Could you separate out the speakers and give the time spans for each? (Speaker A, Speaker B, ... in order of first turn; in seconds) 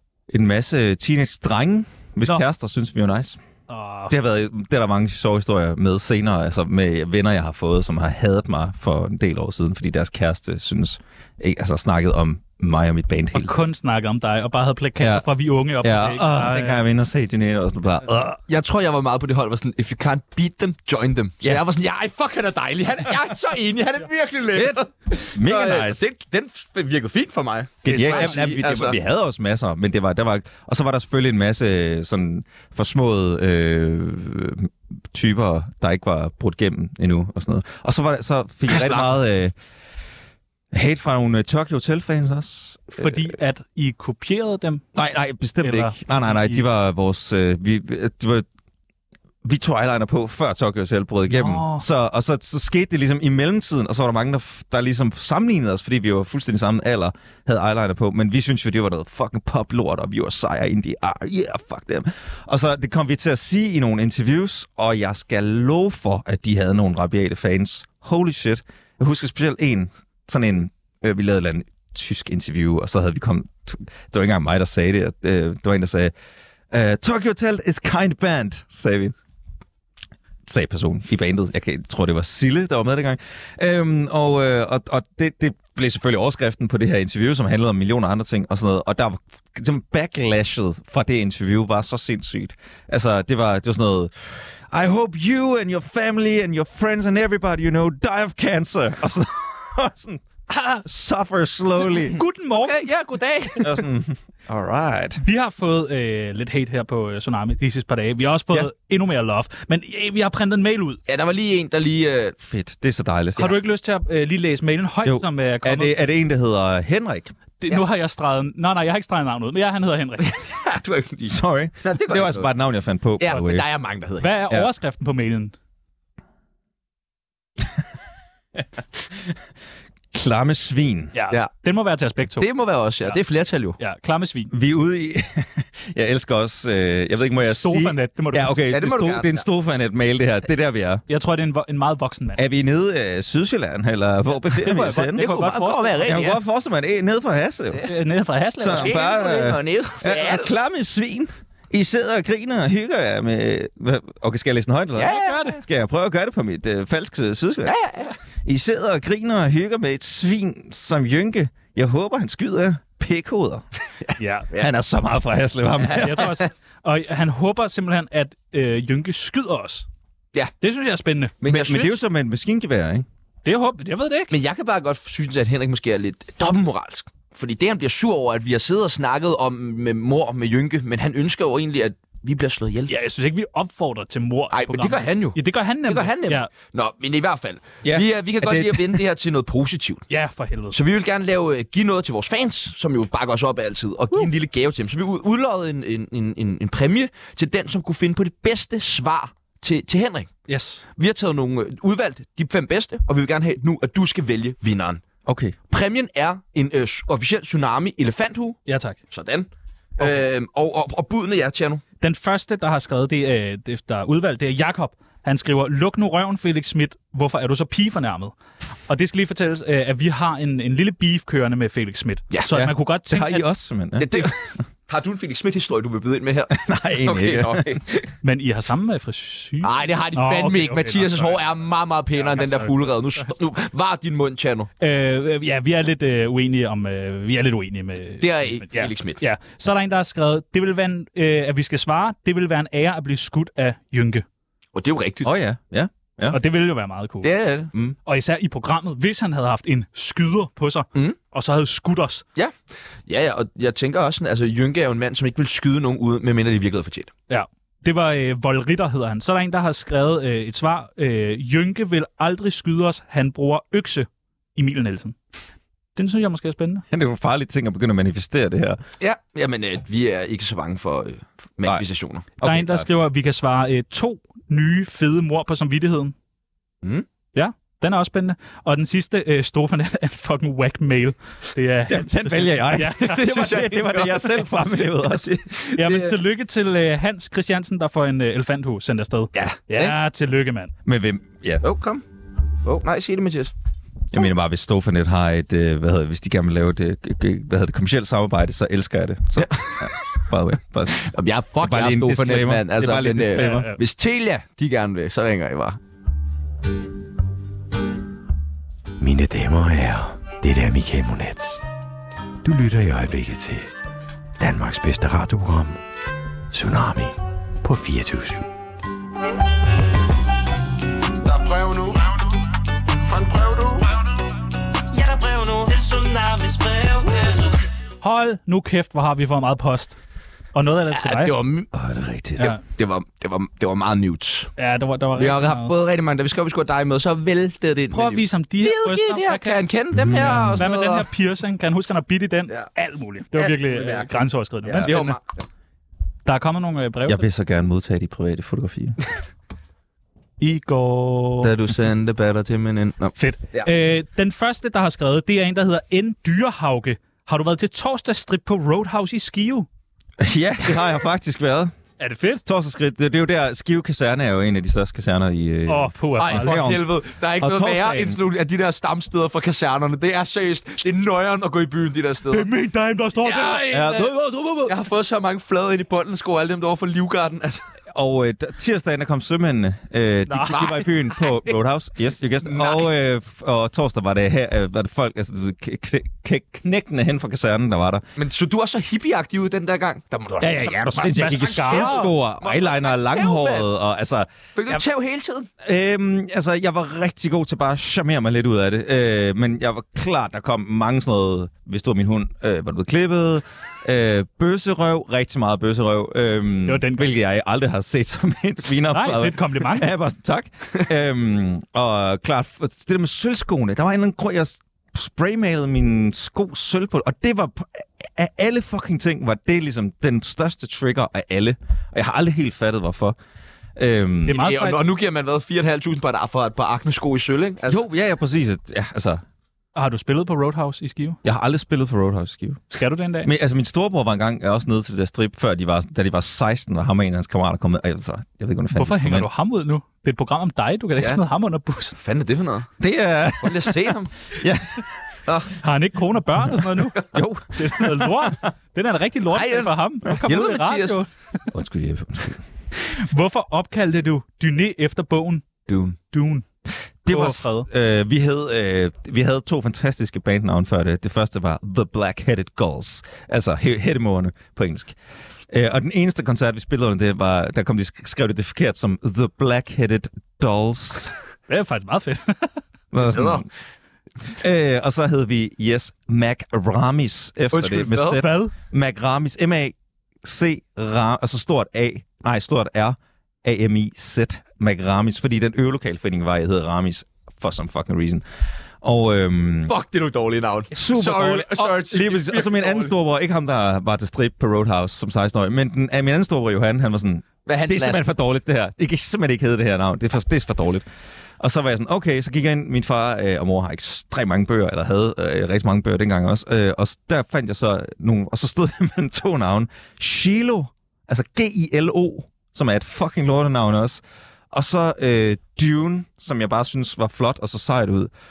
Speaker A: 0.3-3.4, 4.1-13.5, 15.0-15.2, 15.8-18.4, 24.5-26.1, 27.8-39.5, 40.7-43.3, 44.9-48.5, 49.4-76.1, 76.7-79.1, 80.5-100.2, 100.8-102.2, 103.6-105.2, 112.4-113.5, 115.0-117.3, 121.3-123.7, 130.1-131.1, 134.5-141.0, 142.3-145.4, 146.0-147.9, 148.6-157.8, 158.4-163.6, 164.6-166.4, 171.4-173.1, 187.8-189.0, 205.2-205.6, 222.5-224.3, 226.5-227.7, 245.2-246.4, 266.9-268.8, 272.4-272.9, 281.9-285.3, 290.8-291.6, 294.1-303.7, 331.7-332.6, 339.9-340.6, 344.7-344.9, 347.1-349.0, 360.2-361.7, 362.4-368.2, 373.7-374.7, 377.9-388.1, 390.4-394.8, 395.6-423.1, 423.8-424.4, 427.7-429.2, 431.2-432.6, 433.2-439.3, 442.8-444.8, 447.1-448.3, 451.5-452.4, 457.0-464.9, 465.5-471.1, 472.9-473.4, 474.3-488.2, 488.8-489.7, 490.7-500.8, 501.4-518.1
Speaker B: 3.7-4.1, 13.3-16.8, 27.9-28.3, 43.0-44.8, 45.6-46.6, 51.3-51.8, 100.5-100.8, 101.9-102.8, 105.2-111.0, 113.4-115.9, 117.6-120.3, 124.2-125.5, 131.1-132.5, 133.8-134.5, 137.3-138.6, 141.1-142.4, 144.4-146.1, 147.8-149.0, 155.0-155.6, 164.2-164.5, 165.9-169.9, 170.6-171.3, 173.4-174.3, 182.9-186.5, 190.1-190.8, 200.5-200.8, 208.7-209.0, 212.0-218.3, 218.9-223.5, 228.2-231.6, 232.1-233.2, 234.8-244.2, 246.3-247.3, 248.1-252.2, 257.3-265.1, 265.9-266.8, 272.4-276.1, 277.3-283.3, 285.7-290.7, 303.4-303.8, 328.0-330.0, 330.5-331.4, 334.6-335.7, 337.9-345.2, 346.2-347.2, 350.4-351.5, 353.2-359.7, 362.0-362.4, 365.7-366.7, 372.3-373.8, 380.3-380.8, 391.0-392.1, 406.7-407.1, 408.9-409.9, 424.3-424.8, 429.7-431.2, 432.7-433.3, 438.7-442.0, 445.6-451.1, 452.8-455.4, 456.1-456.4, 457.1-457.7, 471.5-472.6, 478.2-478.5
Speaker C: 18.5-29.0, 38.7-39.2, 102.5-103.8, 111.1-112.3, 120.2-122.5, 123.2-124.3, 132.4-133.8, 138.7-139.4, 145.2-146.4, 148.7-150.6, 154.9-155.4, 157.6-158.1, 164.1-164.7, 165.8-166.5, 171.4-172.0, 174.3-182.9, 184.5-190.0, 190.7-200.3, 201.0-205.0, 205.7-208.6, 209.1-211.8, 224.0-228.1, 229.6-234.7, 238.2-239.2, 244.7-245.3, 247.2-247.7, 253.1-257.1, 269.0-272.3, 283.0-286.1, 289.3-289.9, 291.6-292.0, 292.6-293.5, 299.4-300.2, 300.9-305.8, 330.9-331.7, 332.6-334.5, 335.1-341.1, 343.3-344.2, 344.8-345.2, 351.4-353.7, 366.2-372.5, 373.2-374.1, 374.6-377.6, 380.5-380.8, 382.4-382.9, 388.2-393.7, 394.6-395.5, 424.3-427.8, 442.0-442.7, 443.4-444.1, 445.3-445.5, 449.3-451.0, 455.7-456.0, 473.0-473.5, 477.5-478.2, 489.6-492.9, 497.4-498.1
Speaker D: 309.0-311.6, 312.4-313.7, 314.4-315.8, 316.5-318.5
Speaker E: 321.2-322.4, 323.0-324.0
Speaker F: 324.9-327.7